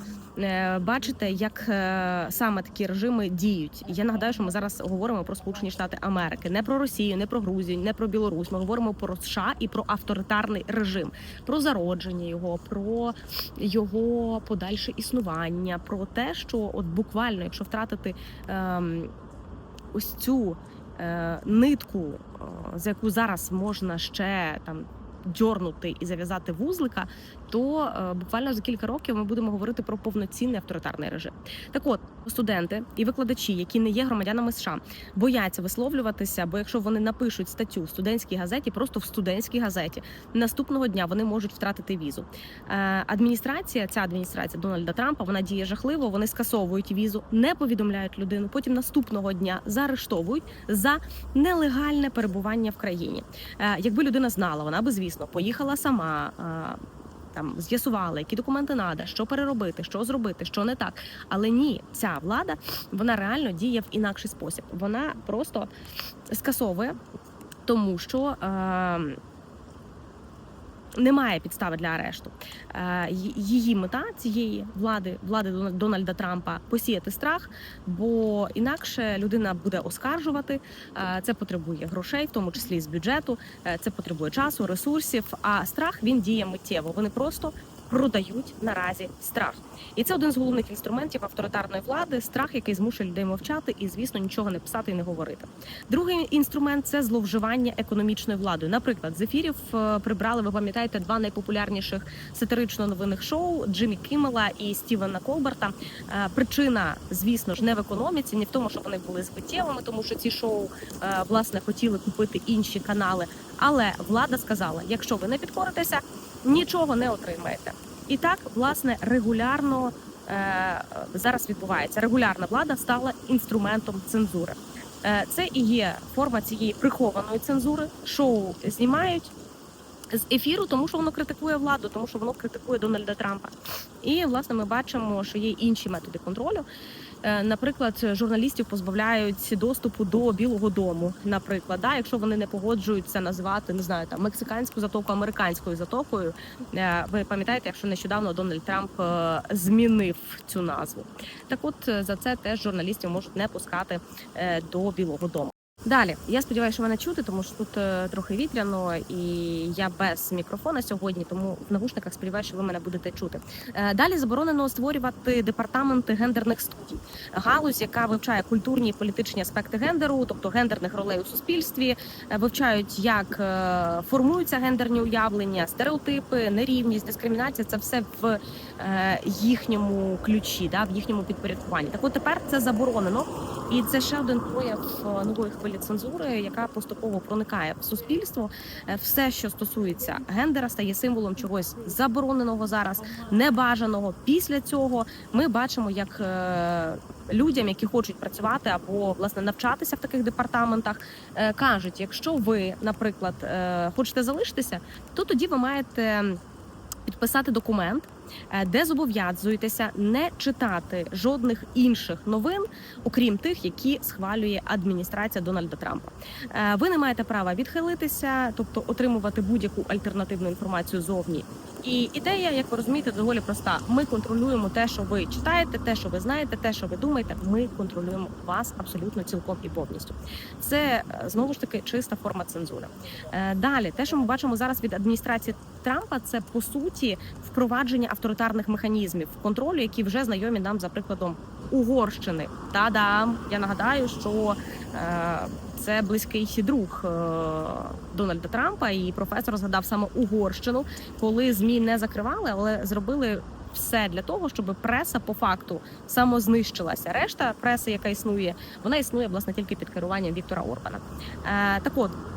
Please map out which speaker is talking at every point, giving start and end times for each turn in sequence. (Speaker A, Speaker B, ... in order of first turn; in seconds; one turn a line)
Speaker A: 0.3-19.1
Speaker A: 19.9-56.8
Speaker A: 57.3-65.7
Speaker A: 66.3-67.0
Speaker A: 67.7-69.2
Speaker A: 71.0-129.3
Speaker A: 130.1-136.7
Speaker A: 137.2-206.4
Speaker A: 207.1-262.1